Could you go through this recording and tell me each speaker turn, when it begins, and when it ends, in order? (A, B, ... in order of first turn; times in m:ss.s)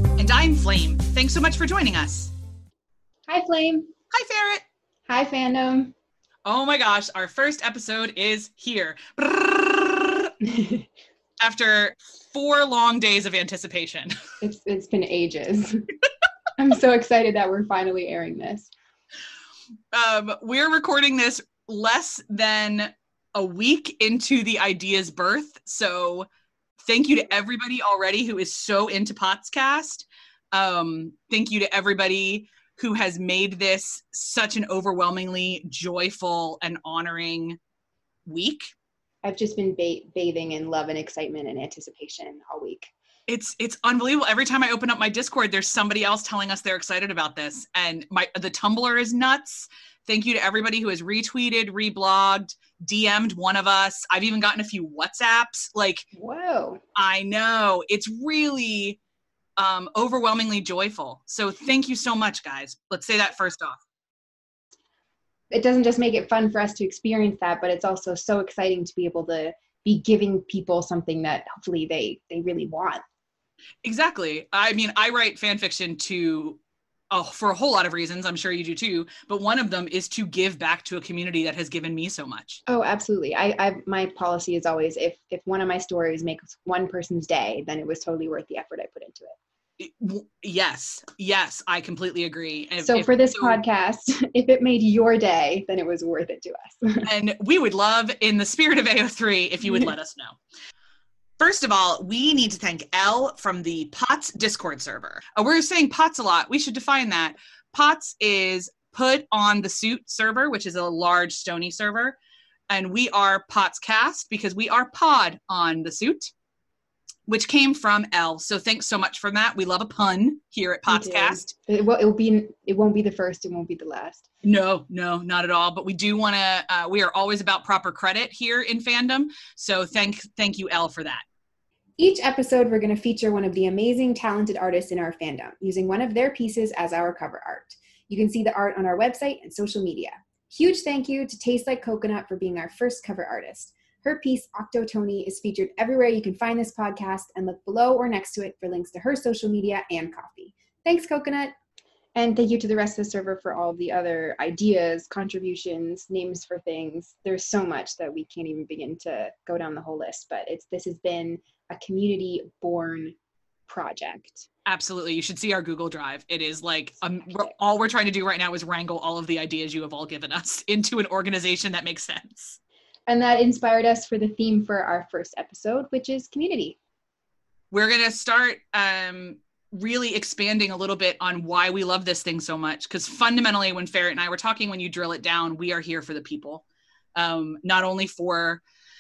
0:00.2-0:02.3 A
0:03.3-0:03.9 B
0:04.1-0:04.6 A
0:05.1-0:05.9 B
0:06.4-0:10.3 A
0:10.4-0:10.9 B
0:11.4-0:14.1 A
0:14.4-0:15.9 B
0:16.6-0:18.7 B
0:19.9-0:26.3 A
0:26.8-0:37.6 A
0:38.3-0:38.7 A
0:39.2-0:42.9 B
0:43.3-0:56.1 A
0:56.2-0:56.8 B
0:57.0-0:59.0 A
0:59.6-1:03.8 A
1:05.5-1:13.0 B
1:13.8-1:16.6 A
1:17.1-1:22.6 A
1:22.7-1:29.4 B
1:29.8-1:33.6 A
1:32.8-1:37.1 B
1:37.0-1:40.4 A
1:41.4-1:52.2 A
1:52.7-1:56.3 A
1:57.3-2:01.5 A
2:00.9-2:04.2 B
2:04.4-2:11.2 A
2:12.0-2:31.5 B
2:32.2-2:43.1 B
2:43.7-2:44.5 B
2:44.7-2:52.6 A
2:53.1-2:56.8 B
2:57.7-3:06.6 A
3:07.2-3:08.6 A